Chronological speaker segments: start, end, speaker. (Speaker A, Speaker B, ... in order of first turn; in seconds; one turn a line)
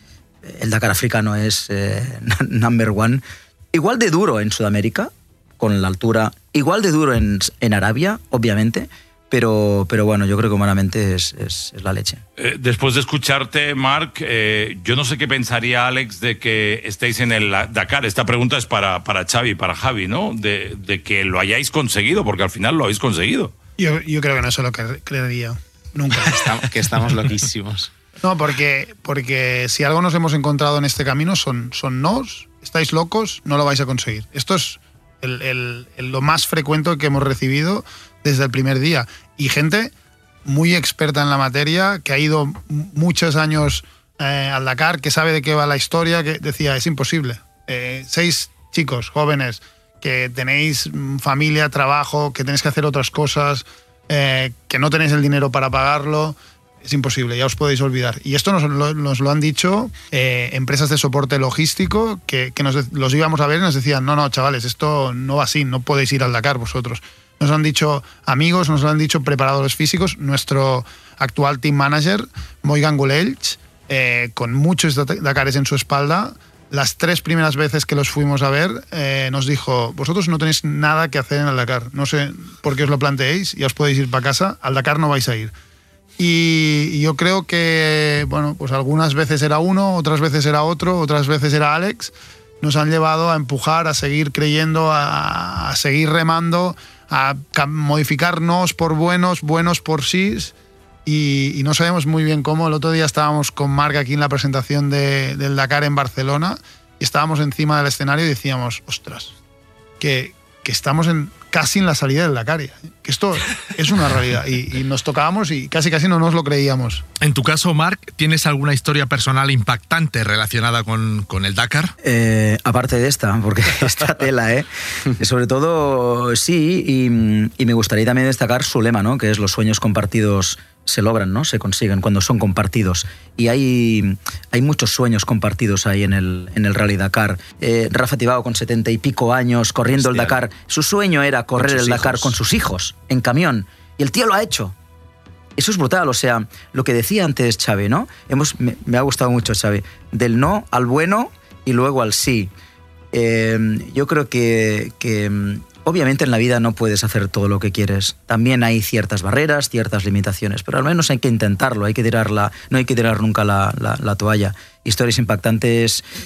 Speaker A: 0.4-12.2
Speaker B: 12.4-23.5
Speaker C: 23.8-26.5
Speaker D: 26.2-27.9
Speaker C: 28.2-39.9
Speaker C: 40.5-85.5
Speaker C: 86.2-100.5
Speaker C: 101.0-109.3
Speaker C: 110.0-117.0
Speaker E: 117.2-121.9
Speaker A: 122.0-144.8
Speaker D: 139.9-140.4
Speaker D: 141.6-142.3
Speaker A: 145.6-152.5
Speaker A: 153.1-166.0